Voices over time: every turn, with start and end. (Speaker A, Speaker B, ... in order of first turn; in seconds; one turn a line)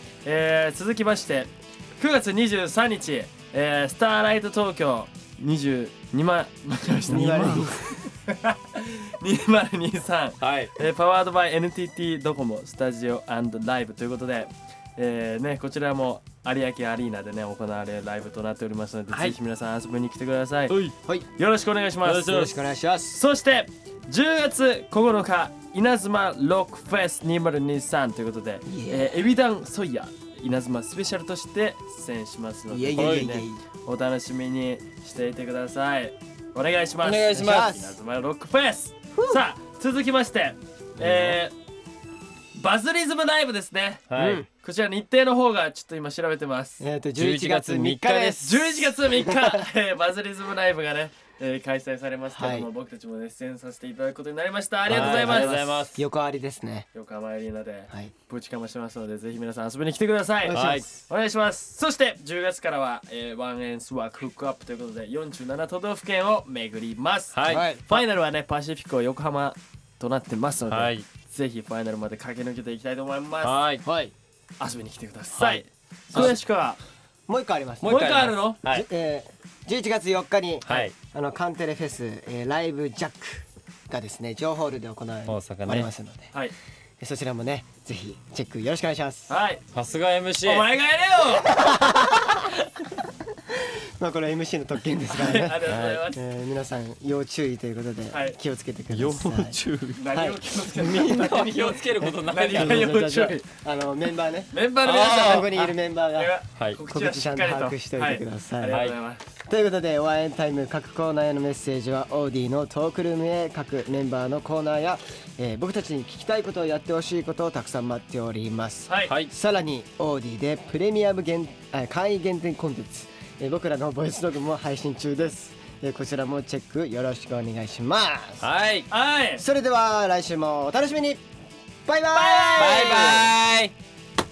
Speaker A: 0.2-20.8
Speaker B: 7.1-7.9
Speaker C: 10.4-10.7
Speaker C: 19.1-19.4
Speaker A: 21.4-22.6
Speaker B: 22.0-23.2
Speaker A: 23.1-41.5
Speaker B: 28.7-29.2
Speaker B: 32.7-33.6
Speaker C: 37.0-37.7
Speaker B: 37.3-38.0
Speaker B: 39.1-39.4
Speaker C: 41.0-41.4
Speaker A: 42.5-46.8
Speaker C: 44.1-44.4
Speaker B: 44.2-44.5
Speaker B: 46.8-49.6
Speaker C: 47.2-48.5
Speaker A: 48.4-55.8
Speaker B: 52.3-52.7
Speaker B: 54.9-56.9
Speaker C: 54.9-56.0
Speaker A: 56.9-73.5
Speaker B: 60.4-61.1
Speaker C: 60.5-60.9
Speaker C: 67.3-67.8
Speaker B: 67.5-67.9
Speaker C: 70.7-71.0
Speaker C: 73.4-73.8
Speaker B: 73.9-74.1
Speaker A: 74.6-76.8
Speaker C: 75.3-76.3
Speaker B: 76.1-76.4
Speaker B: 77.3-86.3
Speaker C: 77.8-78.9
Speaker A: 77.8-78.6
Speaker C: 80.7-81.0
Speaker C: 85.3-85.9
Speaker B: 87.0-89.4
Speaker A: 89.3-89.6
Speaker C: 89.7-90.7
Speaker A: 90.4-91.6
Speaker B: 91.4-99.6
Speaker A: 95.1-96.2
Speaker A: 98.1-98.4
Speaker C: 98.9-100.0
Speaker A: 100.0-103.5
Speaker B: 100.1-101.1
Speaker C: 100.7-102.9
Speaker B: 102.0-108.8
Speaker A: 104.5-109.2
Speaker C: 104.8-105.5
Speaker C: 108.7-109.0
Speaker B: 109.5-128.5
Speaker C: 119.1-119.3
Speaker C: 128.4-128.9
Speaker A: 128.9-129.4
Speaker B: 129.4-131.2
Speaker B: 131.9-133.1
Speaker A: 132.1-133.3
Speaker C: 132.6-133.7